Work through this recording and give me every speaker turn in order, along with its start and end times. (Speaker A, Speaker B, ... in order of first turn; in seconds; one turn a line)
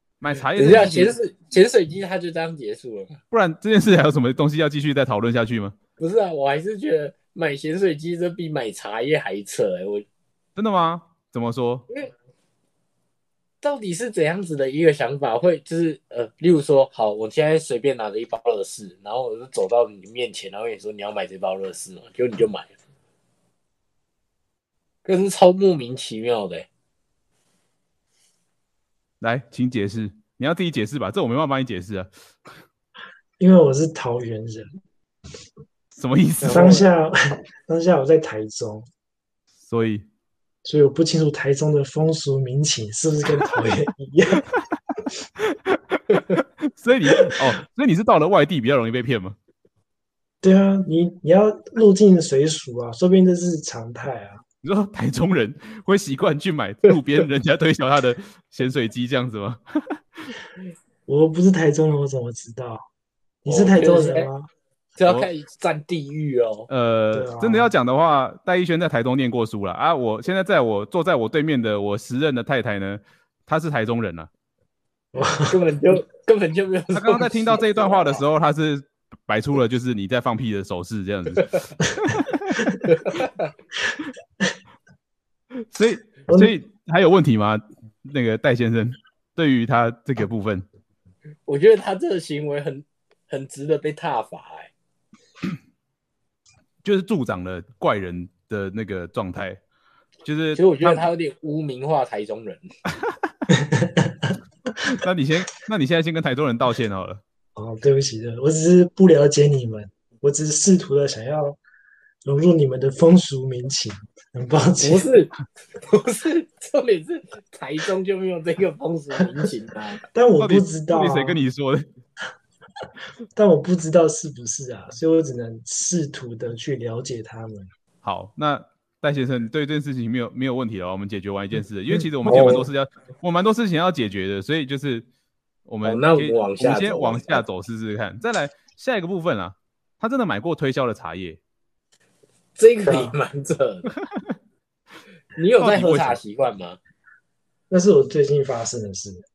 Speaker A: 0.2-1.2
Speaker B: 0.6-3.2
Speaker A: 3.3-5.8
Speaker B: 6.0-10.1
Speaker A: 10.6-11.9
Speaker B: 13.6-22.7
Speaker B: 25.1-26.7
Speaker A: 29.2-32.1
Speaker C: 33.4-34.7
Speaker A: 35.9-36.8
Speaker B: 36.4-36.9
Speaker C: 36.5-38.9
Speaker A: 39.6-40.1
Speaker C: 40.6-44.5
Speaker A: 45.4-49.4
Speaker C: 50.4-54.4
Speaker A: 54.6-60.3
Speaker C: 61.1-62.9
Speaker C: 63.4-64.5
Speaker B: 63.5-64.3
Speaker B: 65.0-66.7
Speaker A: 65.0-65.3
Speaker A: 66.7-74.3
Speaker C: 67.1-67.7
Speaker C: 75.1-75.8
Speaker B: 75.4-78.2
Speaker A: 76.9-82.6
Speaker C: 82.6-82.9
Speaker B: 82.9-83.5
Speaker A: 85.7-90.7
Speaker C: 86.3-86.5
Speaker B: 91.5-94.7
Speaker A: 96.8-99.6
Speaker A: 100.2-101.0
Speaker B: 100.6-102.7
Speaker C: 103.5-104.3
Speaker A: 104.8-107.2
Speaker C: 107.6-111.6
Speaker C: 112.2-115.1
Speaker B: 114.8-120.0
Speaker C: 120.1-121.4
Speaker A: 120.4-121.9
Speaker C: 123.3-127.7
Speaker A: 128.0-135.1
Speaker C: 132.2-132.7
Speaker A: 135.7-141.4
Speaker B: 135.8-137.4
Speaker B: 142.6-143.9
Speaker C: 142.9-143.2
Speaker A: 144.0-144.3
Speaker B: 145.3-146.8
Speaker A: 145.6-146.2
Speaker C: 147.7-149.2